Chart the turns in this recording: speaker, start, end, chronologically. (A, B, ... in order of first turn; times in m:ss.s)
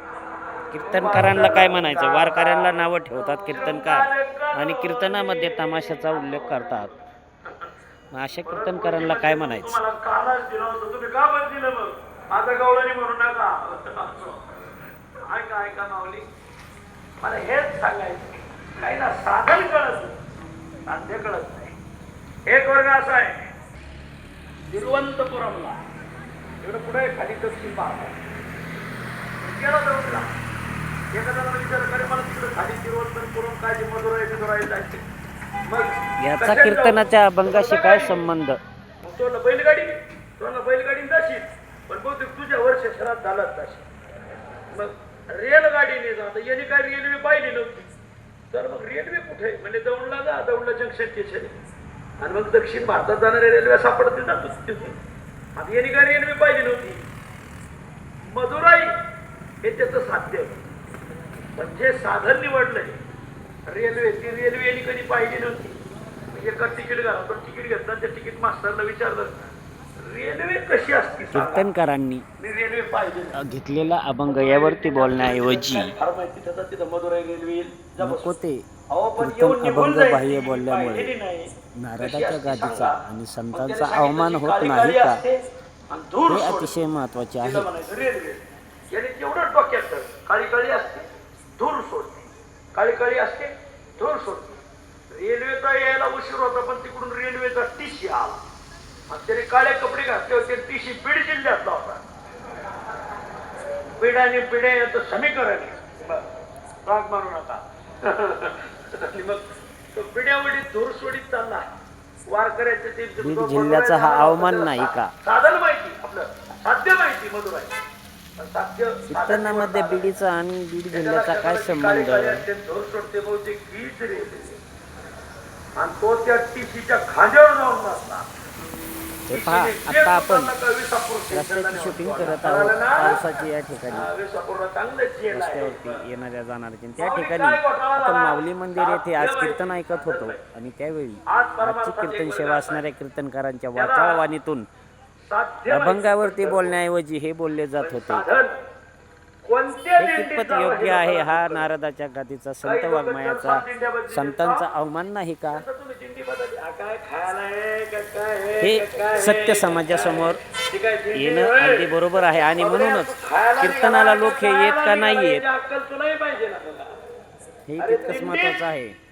0:00.7-0:06.9 A
0:00.8-0:07.0 B
0:08.1-0:09.8 A
0:08.4-0:14.5 B
0:15.3-0:16.3 B
0:17.2-0:20.2 B
0:20.9-0:21.7 B
0:22.5-0:23.5 B
0:24.7-0:25.8 B
0:26.6-0:28.1 B
0:29.4-0:30.3 B
0:31.1-0:35.0 B
0:35.7-0:38.3 B
0:36.2-0:38.6 A
0:39.0-0:43.8 B
0:44.7-0:47.9 B
0:48.5-0:51.5 B
0:52.2-0:55.0 B
0:55.6-0:57.0 B
0:58.2-0:58.9 B
0:59.6-1:00.6 B
1:01.6-1:03.0 B
1:03.7-1:05.8 B
1:06.3-1:09.4 B
1:10.0-1:11.7 B
1:11.3-1:12.2 A
1:12.4-1:13.4 B
1:13.4-1:15.9 A
1:14.2-1:18.3 B
1:18.0-1:18.6 A
1:18.9-1:26.7 B
1:19.2-1:21.1 A
1:21.8-1:25.2 A
1:26.3-1:27.7 A
1:27.4-1:34.6 B
1:35.1-1:38.4 B
1:39.1-1:42.0 B
1:44.0-1:46.2 B
1:46.8-1:51.7 B
1:52.3-1:57.8 B
1:53.2-1:55.1 A
1:58.4-2:00.1 B
1:59.1-2:02.4 A
2:00.9-2:04.6 B
2:05.8-2:08.2 B
2:09.3-2:10.5 A
2:09.3-2:13.2 B
2:11.3-2:14.1 A
2:13.9-2:16.0 B
2:15.3-2:24.7 A
2:17.0-2:20.4 B
2:21.3-2:22.8 B
2:23.8-2:24.2 B
2:25.3-2:26.8 B
2:25.7-2:28.2 A
2:27.8-2:28.6 B
2:29.4-2:31.7 B
2:30.0-2:35.6 A
2:32.6-2:34.7 B
2:35.5-2:41.9 B
2:38.6-2:40.4 A
2:41.1-2:45.4 A
2:42.5-2:46.9 B
2:47.7-2:49.0 A
2:47.8-2:48.6 B